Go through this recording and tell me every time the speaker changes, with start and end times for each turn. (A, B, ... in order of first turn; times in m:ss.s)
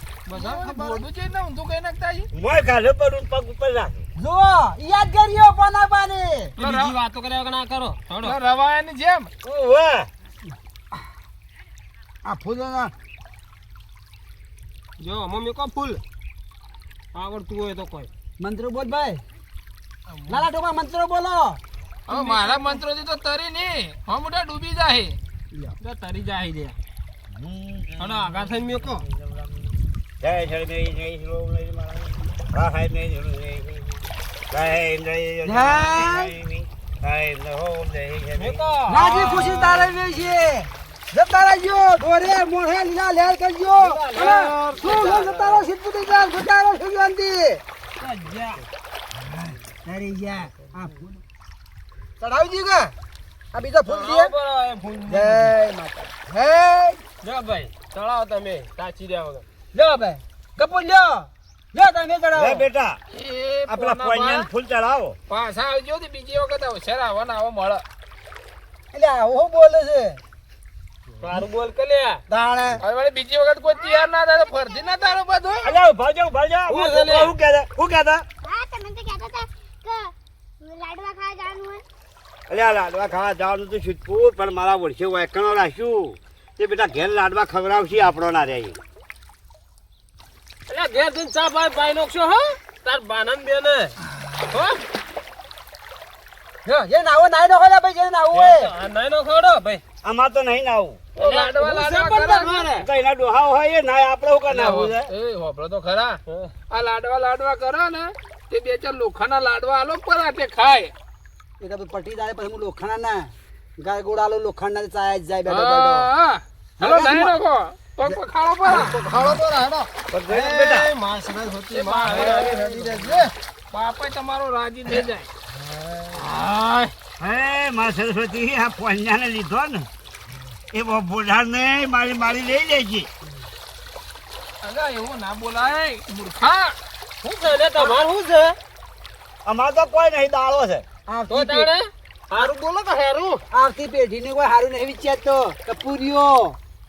0:00.3-0:00.8 A
0:00.3-0:02.3 B
0:02.3-0:04.0 C
0:04.2-0:06.5 D
0:06.6-0:08.4 A
0:06.6-0:07.0 B
0:08.2-0:09.3 B
0:09.4-0:10.1 C
0:12.2-0:12.9 D
0:15.0-0:16.0 A
0:17.1-0:18.1 A
0:18.4-0:19.2 D
0:20.3-0:21.6 D
0:22.1-0:25.2 B
0:22.1-0:22.8 A
0:25.8-0:26.8 A
0:27.3-0:28.6 C
0:28.0-0:29.0 A
0:30.2-0:34.0 C
0:34.5-0:38.6 C
0:35.4-0:36.3 D
0:38.4-0:39.9 A
0:38.9-0:47.6 D
0:43.8-0:45.7 A
0:48.0-0:48.6 A
0:49.8-0:51.2 D
0:52.2-0:52.9 D
0:53.5-0:54.3 D
0:53.9-0:55.5 A
0:55.1-0:57.0 D
0:57.2-0:59.4 A
0:59.7-1:02.6 D
1:02.3-1:03.0 C
1:03.1-1:04.5 B
1:03.7-1:05.2 C
1:05.3-1:07.8 B
1:08.9-1:10.2 D
1:11.2-1:12.2 A
1:12.3-1:12.8 D
1:12.8-1:15.8 B
1:13.7-1:15.2 E
1:15.6-1:18.2 C
1:16.7-1:17.3 A
1:18.4-1:21.8 E
1:22.5-1:28.8 C
1:30.7-1:34.0 A
1:34.5-1:34.8 A
1:36.6-1:38.7 D
1:38.3-1:39.8 A
1:40.0-1:41.0 C
1:41.2-1:42.9 A
1:41.2-1:42.7 B
1:42.8-1:45.1 C
1:44.5-1:46.2 B
1:46.3-1:46.6 A
1:46.7-1:50.9 B
1:51.6-1:56.1 D
1:55.5-1:59.0 B
1:56.8-1:57.4 D
1:58.6-2:03.3 A
2:00.1-2:00.9 C
2:01.7-2:02.8 B
2:02.3-2:03.2 D
2:03.7-2:05.3 B
2:06.1-2:06.9 A
2:07.2-2:09.9 C
2:10.7-2:13.1 C
2:14.6-2:16.8 B
2:17.2-2:18.6 A
2:19.4-2:20.8 C
2:21.1-2:21.7 D
2:21.3-2:23.4 A
2:23.5-2:26.6 D